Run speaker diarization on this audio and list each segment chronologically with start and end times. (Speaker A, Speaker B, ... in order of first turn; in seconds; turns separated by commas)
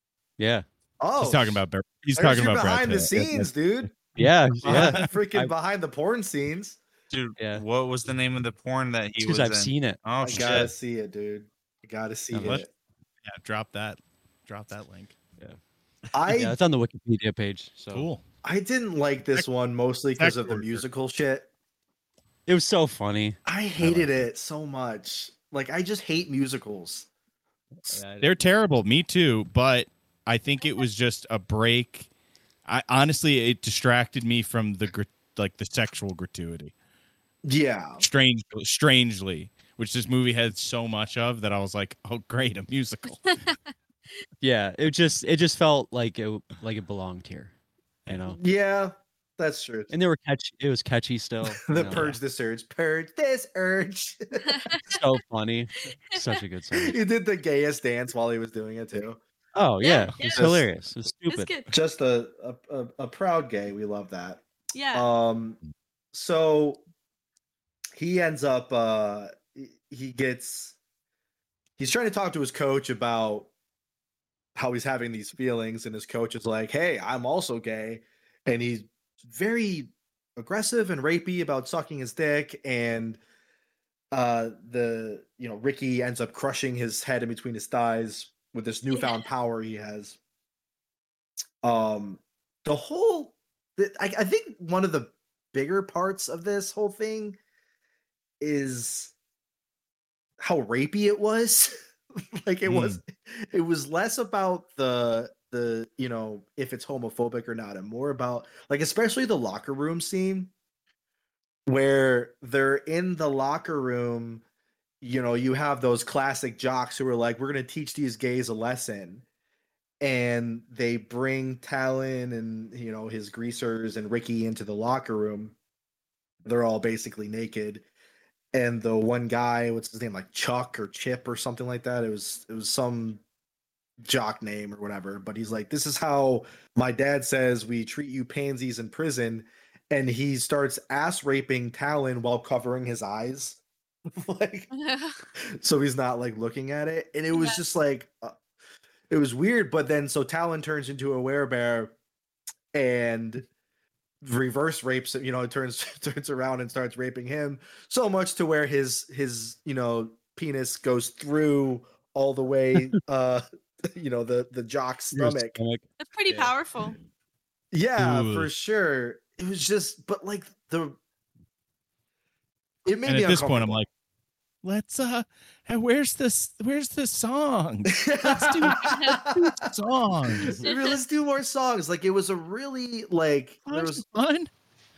Speaker A: 0.4-0.6, Speaker B: 1.0-1.6, Speaker C: 1.2-5.1, Speaker B: 2.2-3.9, Speaker A: 4.2-5.5, Speaker B: 4.6-6.8, Speaker D: 7.1-10.7, Speaker A: 7.4-7.6, Speaker A: 9.2-10.0, Speaker B: 10.2-12.7, Speaker A: 12.3-12.6, Speaker C: 13.2-15.2, Speaker B: 16.1-16.6, Speaker A: 16.3-18.1, Speaker C: 17.9-18.2, Speaker B: 18.4-21.5, Speaker C: 20.2-20.8, Speaker A: 22.5-23.4, Speaker B: 23.4-27.1, Speaker A: 27.9-28.4, Speaker C: 28.2-32.1, Speaker C: 32.6-36.7, Speaker B: 37.4-38.0, Speaker C: 38.0-43.3, Speaker E: 43.2-43.6, Speaker A: 44.4-47.5, Speaker A: 48.1-48.4, Speaker B: 48.3-49.9, Speaker A: 49.9-52.2, Speaker B: 51.7-54.7, Speaker E: 54.4-54.9, Speaker A: 54.9-57.0, Speaker B: 56.7-59.2, Speaker A: 59.5-61.5, Speaker E: 59.8-60.5, Speaker B: 60.2-60.7, Speaker E: 61.3-61.7, Speaker B: 61.7-65.6, Speaker E: 64.7-65.1, Speaker B: 66.1-66.8, Speaker B: 68.0-70.8, Speaker B: 71.8-73.5, Speaker B: 74.5-83.2, Speaker B: 84.1-90.2, Speaker E: 88.9-89.2, Speaker B: 91.6-97.4, Speaker B: 98.4-99.1, Speaker B: 100.4-110.5, Speaker C: 102.7-103.0, Speaker B: 111.7-114.4, Speaker B: 115.0-119.2, Speaker B: 120.0-125.5, Speaker B: 126.4-127.8, Speaker B: 128.5-133.2, Speaker B: 134.0-143.6, Speaker B: 144.1-144.7, Speaker E: 144.7-145.2, Speaker B: 145.4-148.3, Speaker E: 147.3-147.6, Speaker B: 149.1-151.9, Speaker B: 152.7-153.5, Speaker B: 154.2-165.6, Speaker A: 165.1-166.5, Speaker E: 166.0-167.0, Speaker B: 167.7-171.0, Speaker C: 168.0-168.5, Speaker B: 172.8-173.8, Speaker C: 173.1-173.9, Speaker C: 174.6-180.6, Speaker B: 177.9-179.7, Speaker E: 178.8-179.2, Speaker B: 180.3-184.0, Speaker E: 180.6-180.9, Speaker C: 183.7-184.5